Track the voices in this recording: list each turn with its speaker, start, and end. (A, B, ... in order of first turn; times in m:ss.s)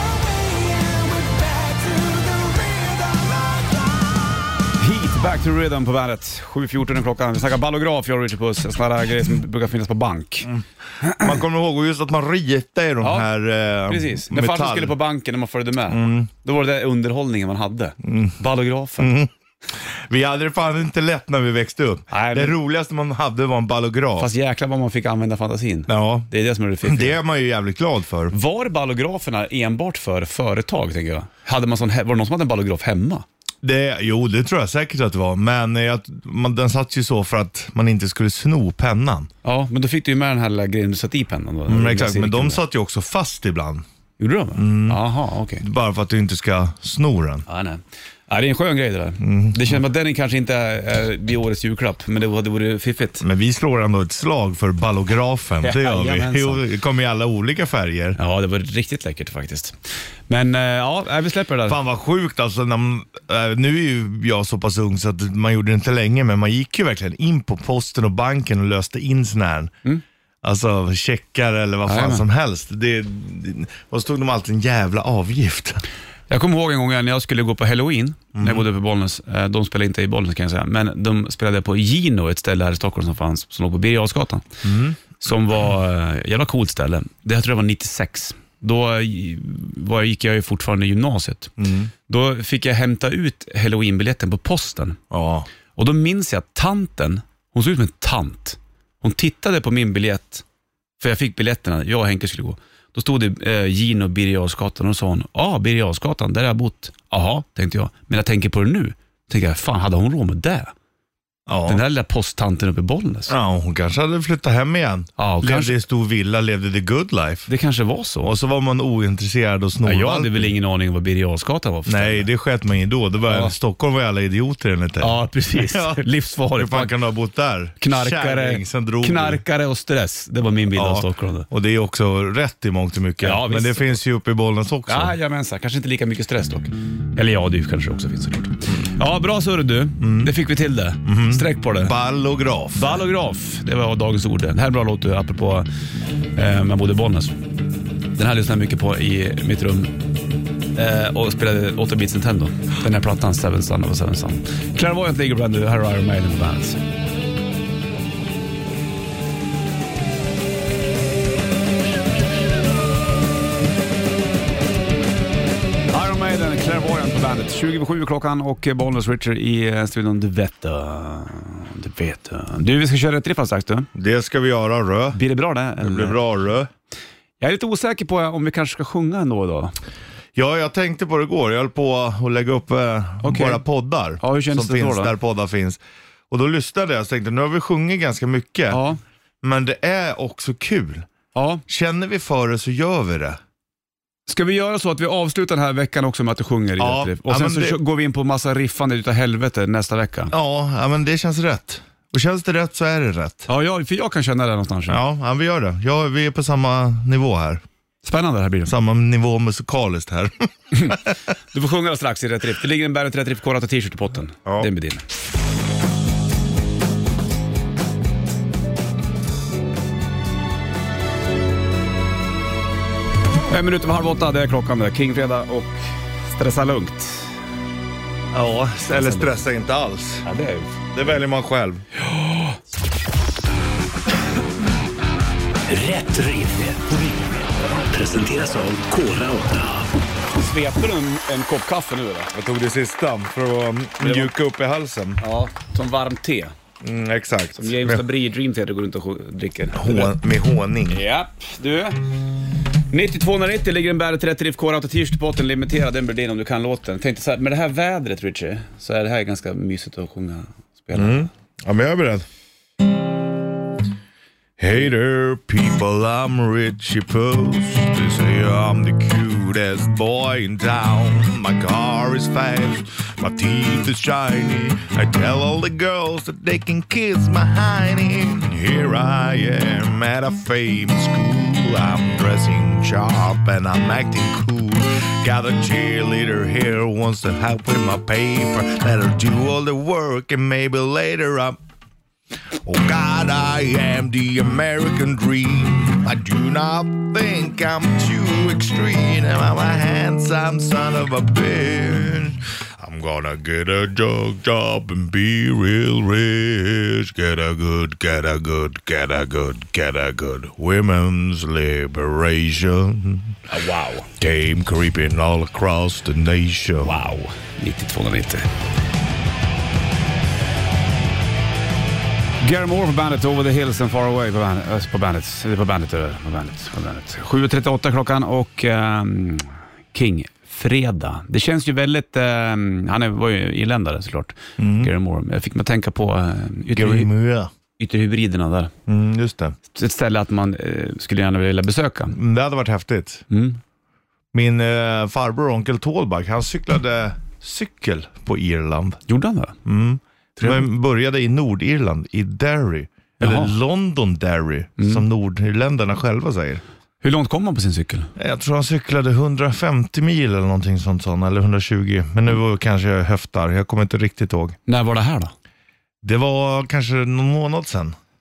0:04.8-0:11.3 A
0:10.5-0:15.0 B
0:13.0-0:13.3 A
0:13.9-0:19.1 A
0:15.9-0:16.3 B
0:18.0-0:18.4 B
0:19.0-0:19.3 B
0:20.0-0:24.3 B
0:22.1-0:22.6 A
0:24.2-0:27.2 A
0:25.9-0:26.3 B
0:26.8-0:28.3 B
0:28.3-0:33.2 A
0:33.6-0:39.3 B
0:39.4-0:42.6 A
0:41.7-0:43.8 B
0:44.2-0:45.6 A
0:44.5-0:45.0 B
0:45.6-0:47.4 B
0:47.5-0:53.2 A
0:49.2-0:49.7 B
0:53.2-0:58.2 B
0:55.6-0:56.6 A
0:58.2-0:59.8 A
1:00.3-1:01.8 A
1:01.7-1:09.7 B
1:10.4-1:15.8 B
1:11.8-1:12.2 A
1:16.3-1:24.4 A
1:18.3-1:18.6 B
1:24.6-1:25.0 B
1:25.2-1:31.5 A
1:31.6-1:31.9 B
1:32.1-1:35.0 A
1:35.1-1:35.5 B
1:35.8-1:40.4 A
1:41.0-1:50.7 A
1:51.5-1:51.8 B
1:51.7-1:53.3 A
1:53.3-1:57.5 B
1:55.2-1:55.8 A
1:57.5-1:58.3 A
1:58.2-2:00.5 B
1:59.8-2:02.3 A
2:01.9-2:09.4 B
2:03.2-2:03.5 A
2:05.0-2:06.9 A
2:07.8-2:11.5 A
2:10.7-2:15.1 B
2:13.2-2:14.0 A
2:14.9-2:21.9 A
2:20.0-2:20.3 B
2:21.0-2:23.0 B
2:22.7-2:25.7 A
2:26.3-2:27.4 A
2:28.1-2:29.9 A
2:30.7-2:36.8 A
2:45.9-2:53.9 A
2:53.9-2:55.2 B
2:55.1-2:56.2 A
2:55.8-2:56.7 B
2:57.4-2:59.7 A
3:00.3-3:05.8 B
3:03.2-3:03.6 A
3:04.2-3:05.1 A
3:06.3-3:08.8 B
3:08.7-3:09.0 A
3:09.4-3:11.1 B
3:11.3-3:11.6 A
3:11.7-3:13.4 B
3:14.3-3:20.3 A
3:16.8-3:17.8 B
3:20.3-3:23.5 B
3:23.5-3:25.0 A
3:24.9-3:27.6 B
3:28.0-3:28.7 A
3:28.6-3:31.0 B
3:30.7-3:31.0 A
3:31.5-3:35.0 A
3:43.5-3:47.3 A
3:48.3-3:50.2 B
3:48.9-3:49.4 A
3:50.2-3:50.8 A
3:50.9-3:51.8 B
3:52.0-3:52.6 A
3:55.7-3:57.3 C
3:57.9-3:59.7 C
4:00.3-4:02.3 A
4:02.3-4:05.2 B
4:04.0-4:04.3 A
4:05.2-4:06.5 A
4:06.8-4:08.0 B
4:07.6-4:10.2 A
4:09.7-4:11.0 B
4:10.9-4:12.0 A
4:12.9-4:21.3 A
4:20.9-4:22.2 B
4:24.6-4:51.6 B
4:52.6-5:13.4 B
5:13.5-5:14.1 A
5:14.2-5:17.0 B
5:16.8-5:18.5 A
5:22.4-5:37.1 A
5:34.6-5:34.9 B
5:36.7-5:37.5 B
5:37.8-5:38.7 A
5:38.9-5:39.6 B
5:39.7-5:42.2 A
5:42.1-5:43.2 B
5:43.3-5:43.6 A
5:44.3-5:49.0 B
5:49.1-5:49.6 A
5:49.6-5:56.6 B
5:50.4-5:50.7 A
5:53.2-5:53.6 A
5:54.8-5:55.0 A
5:57.0-5:58.1 A
5:58.2-6:04.6 B
6:04.7-6:05.3 A
6:06.0-6:08.0 B